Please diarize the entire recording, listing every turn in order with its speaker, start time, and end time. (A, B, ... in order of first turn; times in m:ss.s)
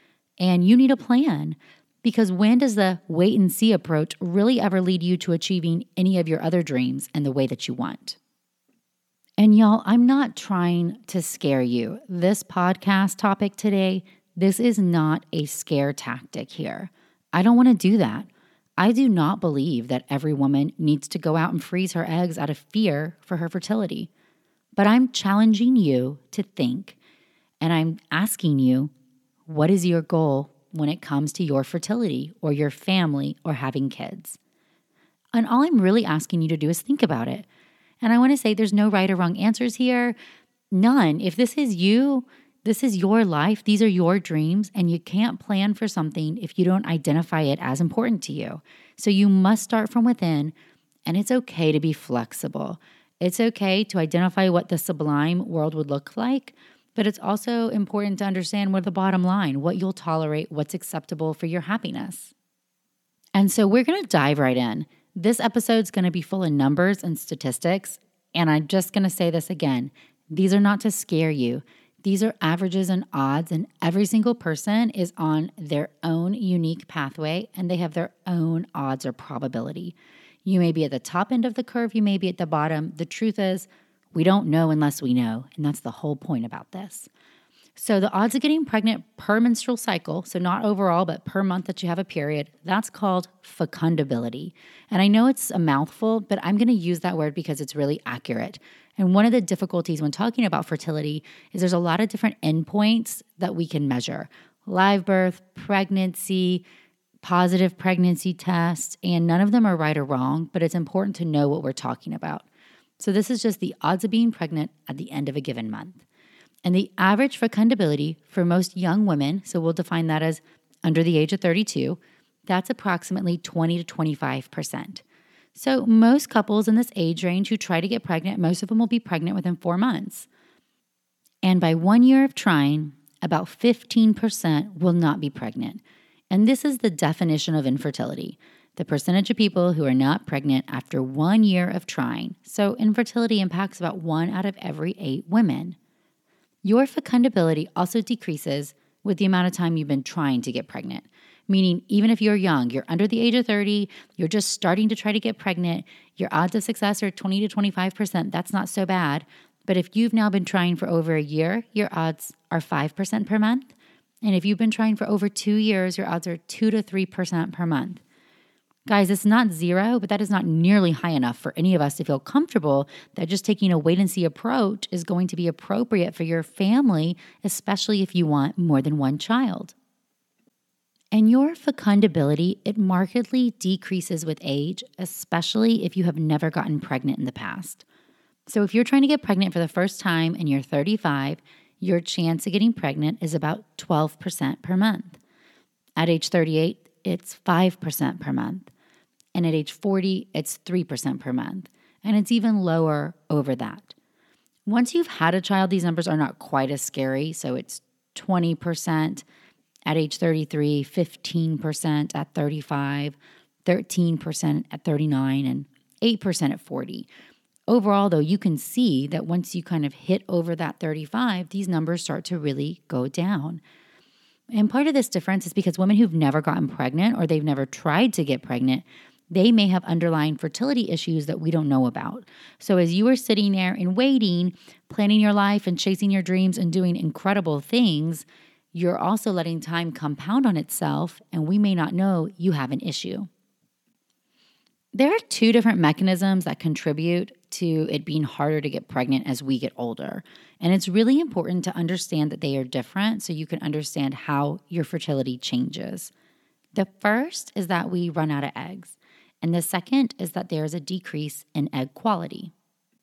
0:00.4-0:08.2 A
0:09.4-0:24.1 A
0:24.8-0:27.0 A
0:27.6-0:28.9 A
0:29.5-0:34.4 A
0:35.3-0:37.5 A
0:38.0-0:40.2 A
0:40.7-0:50.5 A
0:51.1-1:02.3 A
1:03.4-1:27.1 A
1:27.8-1:46.6 A
1:47.2-1:52.5 A
1:53.0-1:56.0 A
1:56.6-2:05.0 A
2:05.6-2:10.3 A
2:11.4-2:25.8 A
2:26.6-2:48.0 A
2:48.9-2:59.7 A
3:01.1-3:07.8 A
3:08.5-3:15.2 A
3:16.0-3:18.7 A
3:19.3-3:23.9 A
3:24.7-3:29.2 A
3:29.9-3:37.1 A
3:37.7-3:43.6 A
3:44.5-4:03.3 A
4:04.9-4:16.1 A
4:16.8-4:22.5 A